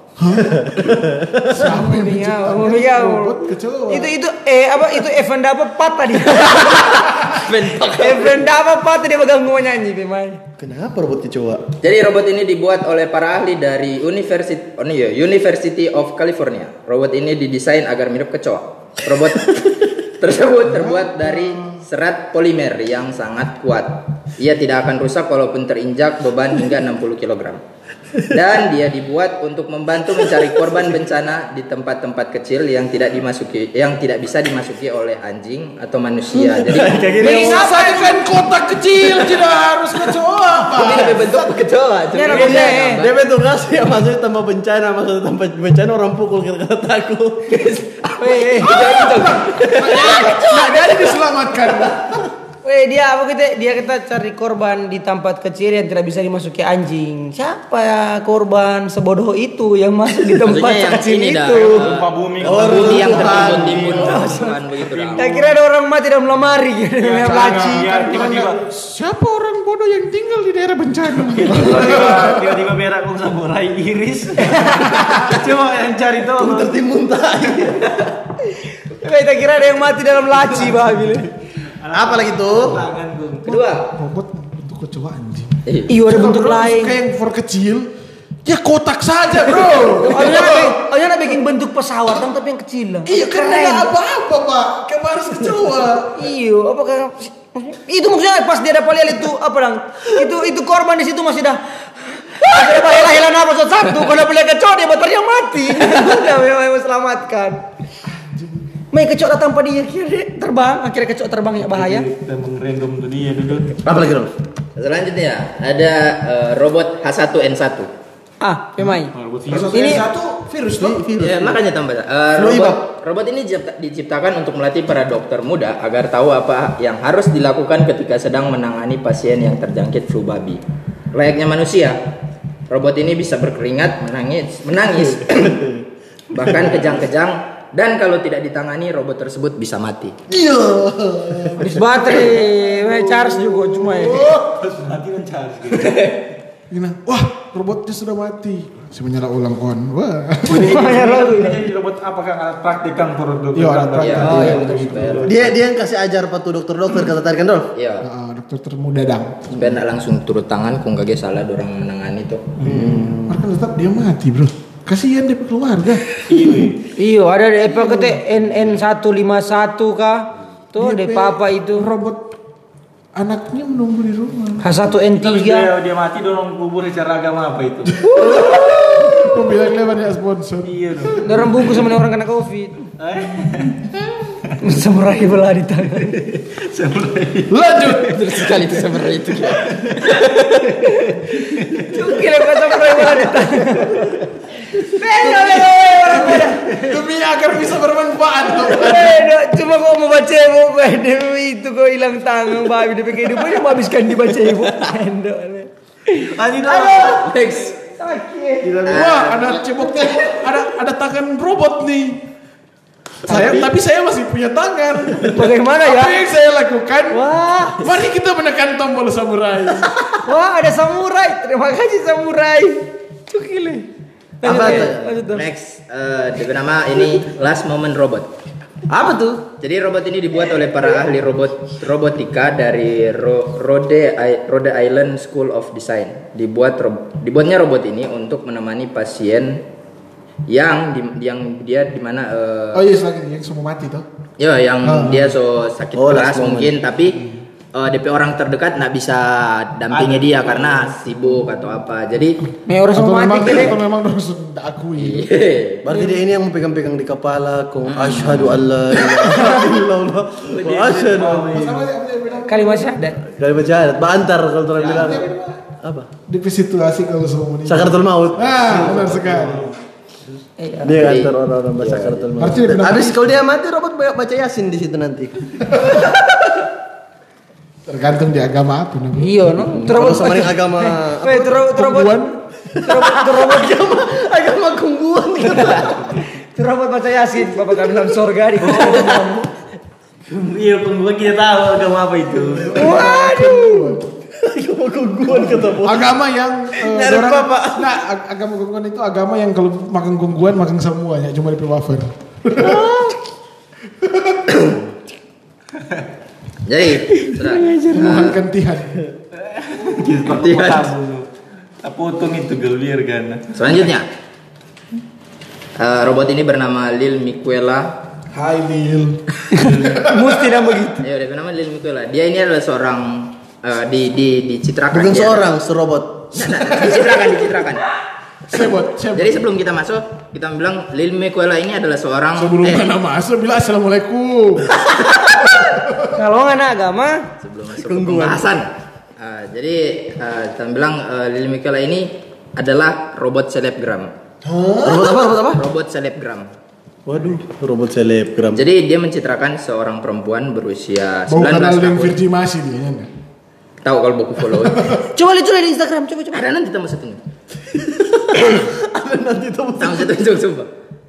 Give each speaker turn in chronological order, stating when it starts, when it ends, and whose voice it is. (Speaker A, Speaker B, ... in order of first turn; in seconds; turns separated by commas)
Speaker A: 0.2-4.1, Speaker B: 0.6-1.3, Speaker C: 1.6-7.2, Speaker D: 7.3-8.4, Speaker C: 8.0-10.4, Speaker B: 10.6-11.8, Speaker D: 11.8-27.6, Speaker A: 20.7-21.8, Speaker D: 28.3-37.3, Speaker B: 36.3-37.6, Speaker C: 37.2-38.2, Speaker A: 37.2-41.6, Speaker D: 40.7-43.1, Speaker C: 42.1-43.0, Speaker B: 42.3-47.7, Speaker D: 47.6-47.8, Speaker C: 48.1-49.3, Speaker D: 48.6-50.0, Speaker A: 48.6-52.3, Speaker B: 49.9-50.4, Speaker C: 52.6-61.9, Speaker D: 60.4-65.4, Speaker E: 61.7-65.5, Speaker B: 62.4-64.2, Speaker C: 64.0-64.5, Speaker C: 65.2-68.0, Speaker E: 67.0-68.6, Speaker A: 67.2-72.6, Speaker E: 71.3-76.8, Speaker C: 74.4-75.2, Speaker B: 76.3-78.0, Speaker C: 78.8-81.3, Speaker E: 81.8-83.6, Speaker B: 81.9-82.8, Speaker D: 83.5-83.9, Speaker A: 83.7-87.9, Speaker D: 85.7-86.0, Speaker C: 85.9-87.0, Speaker A: 88.5-90.9, Speaker C: 90.0-93.9, Speaker A: 93.1-96.2, Speaker C: 96.2-107.6, Speaker A: 108.2-108.7, Speaker C: 108.9-112.1, Speaker E: 111.6-113.8, Speaker B: 113.8-114.3, Speaker D: 114.8-117.9, Speaker C: 118.4-119.1, Speaker E: 119.1-119.9, Speaker A: 119.5-121.1, Speaker C: 119.7-120.1, Speaker B: 120.8-121.7, Speaker D: 121.2-130.6, Speaker B: 122.4-122.8, Speaker D: 131.1-132.0, Speaker D: 132.7-135.6, Speaker B: 135.3-135.7, Speaker D: 136.3-140.2, Speaker B: 140.3-141.6, Speaker A: 140.4-142.3, Speaker C: 141.6-144.3, Speaker A: 143.1-144.6, Speaker E: 144.2-146.3, Speaker A: 146.7-151.0, Speaker C: 150.5-151.6, Speaker E: 150.5-155.3, Speaker A: 153.5-155.3, Speaker D: 154.0-155.6, Speaker C: 154.2-154.7, Speaker B: 155.2-157.7, Speaker D: 157.8-158.1, Speaker A: 158.0-159.8, Speaker D: 159.6-162.5, Speaker A: 162.6-166.1, Speaker B: 162.7-163.4, Speaker E: 166.2-166.9, Speaker C: 166.9-171.9, Speaker A: 170.8-172.4, Speaker A: 173.2-174.7, Speaker C: 174.6-175.7, Speaker E: 175.2-178.0, Speaker C: 178.1-179.4, Speaker A: 178.1-181.6, Speaker E: 180.7-181.2, Speaker C: 181.2-182.9, Speaker E: 183.0-183.9, Speaker C: 184.6-186.2, Speaker E: 186.2-187.9, Speaker A: 187.5-188.9, Speaker D: 188.1-190.2, Speaker E: 189.8-191.9, Speaker C: 190.8-191.2, Speaker C: 191.8-194.1, Speaker C: 194.8-196.6, Speaker A: 195.2-199.2, Speaker E: 196.7-197.0, Speaker C: 198.6-207.3, Speaker E: 206.2-207.3, Speaker D: 207.2-207.8, Speaker C: 207.9-208.9, Speaker D: 208.8-209.6, Speaker A: 208.9-212.3, Speaker A: 213.2-220.1, Speaker C: 213.3-213.7, Speaker C: 215.2-216.2, Speaker C: 217.1-217.8, Speaker C: 220.2-223.9, Speaker C: 224.4-225.5, Speaker B: 224.4-225.2, Speaker D: 224.5-228.3, Speaker B: 228.9-229.5, Speaker D: 229.5-239.6, Speaker D: 240.5-242.8, Speaker A: 242.7-244.1, Speaker D: 244.4-247.2, Speaker A: 244.8-245.4, Speaker B: 246.0-246.8, Speaker D: 247.8-252.5, Speaker E: 249.9-250.9, Speaker C: 252.7-253.8, Speaker A: 252.9-255.3, Speaker D: 255.0-255.9, Speaker B: 255.8-261.8, Speaker D: 257.9-258.6, Speaker A: 259.3-259.7, Speaker E: 260.5-261.8, Speaker A: 261.3-263.0, Speaker C: 262.5-263.2, Speaker B: 263.3-265.3, Speaker E: 264.8-265.2, Speaker A: 264.9-265.6, Speaker B: 265.8-266.1, Speaker A: 266.3-269.7, Speaker B: 267.7-269.2, Speaker E: 268.6-269.8, Speaker C: 270.6-271.0, Speaker B: 270.8-276.2, Speaker D: 270.9-272.3, Speaker A: 272.4-273.3, Speaker A: 275.7-276.1, Speaker A: 277.9-279.4, Speaker C: 279.2-283.8, Speaker B: 279.6-281.4, Speaker A: 281.3-282.4, Speaker B: 282.7-286.2, Speaker E: 285.6-286.2, Speaker C: 286.3-289.4, Speaker B: 287.6-288.0, Speaker E: 288.6-289.2, Speaker E: 290.3-292.8, Speaker A: 292.4-294.2, Speaker C: 292.7-294.0, Speaker B: 294.4-296.2, Speaker A: 295.3-303.0, Speaker B: 296.8-297.8, Speaker B: 302.6-303.1, Speaker A: 304.0-304.6, Speaker B: 304.5-304.8, Speaker D: 306.7-308.4, Speaker C: 307.1-308.3, Speaker A: 307.9-309.1, Speaker E: 309.4-311.3, Speaker D: 310.3-310.9, Speaker E: 311.8-313.5, Speaker D: 313.5-314.1, Speaker D: 315.8-318.0, Speaker A: 318.3-320.6, Speaker C: 319.5-321.1, Speaker E: 319.6-320.0, Speaker D: 321.0-325.5, Speaker B: 324.9-326.6, Speaker D: 326.4-327.9, Speaker A: 328.5-329.5, Speaker D: 329.1-332.9, Speaker A: 332.4-336.2, Speaker C: 336.0-337.2, Speaker D: 337.4-344.1, Speaker B: 337.8-338.5, Speaker A: 344.4-345.2, Speaker B: 344.8-345.6, Speaker D: 345.6-346.5, Speaker B: 347.1-348.7, Speaker D: 348.5-352.2, Speaker A: 351.3-353.1, Speaker D: 353.8-355.0, Speaker A: 354.5-355.0, Speaker C: 355.1-356.4, Speaker D: 356.3-357.2, Speaker B: 357.7-360.2, Speaker D: 359.8-360.7